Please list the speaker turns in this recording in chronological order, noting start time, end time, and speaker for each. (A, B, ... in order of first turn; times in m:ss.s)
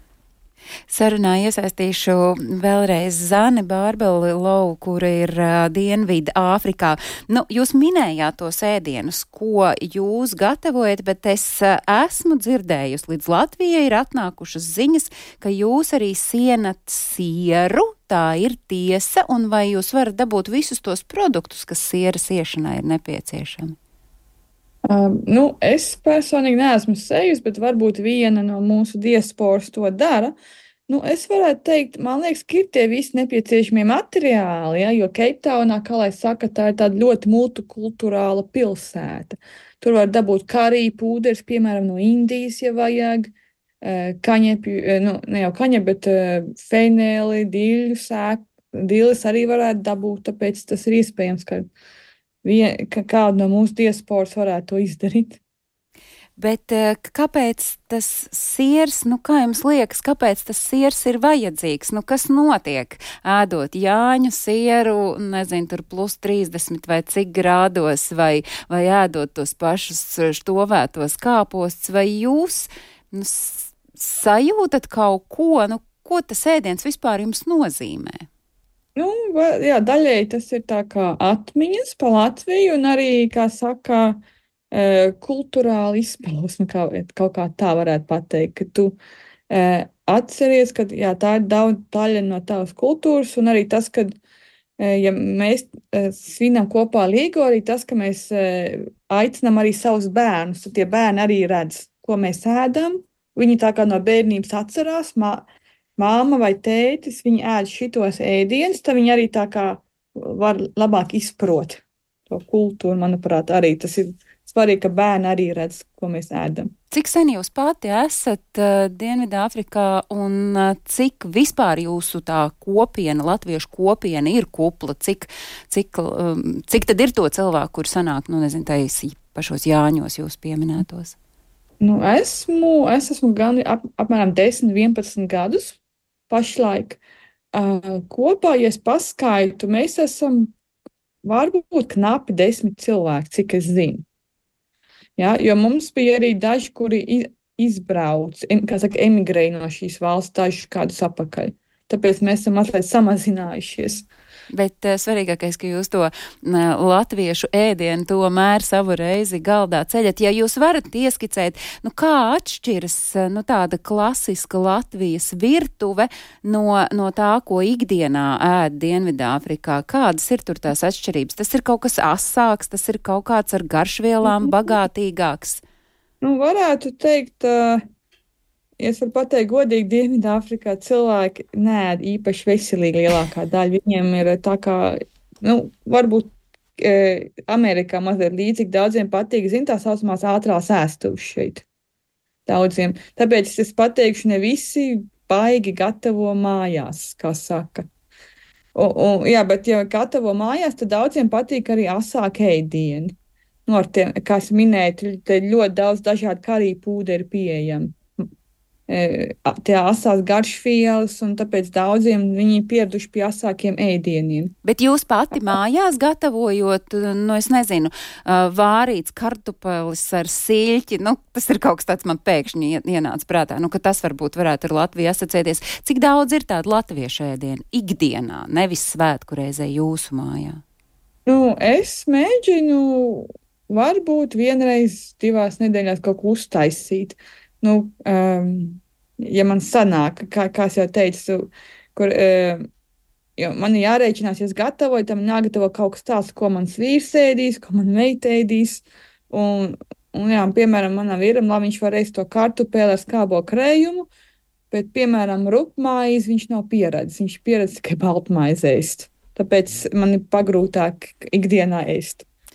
0:00.9-0:23.8 A
0:24.9-0:30.4 B
0:30.9-0:43.3 B
0:43.8-0:51.7 B
0:52.4-0:55.4 B
0:56.4-1:18.3 A
1:19.0-1:24.2 B
1:24.7-1:29.0 B
1:29.5-1:34.1 B
1:34.8-1:45.5 B
1:46.0-1:56.7 B
1:56.9-2:11.2 A
2:11.8-2:15.8 B
2:16.3-2:17.0 B
2:17.5-2:20.5 B
2:21.2-2:24.0 B
2:25.2-2:34.1 B
2:34.5-2:55.6 A
2:56.2-2:57.8 B
2:58.8-3:11.6 B
3:12.5-3:17.9 B
3:18.8-3:23.1 B
3:23.7-3:28.0 B
3:28.9-3:34.5 B
3:34.6-3:50.6 A
3:51.3-4:02.7 B
4:03.4-4:14.1 B
4:14.7-4:22.2 B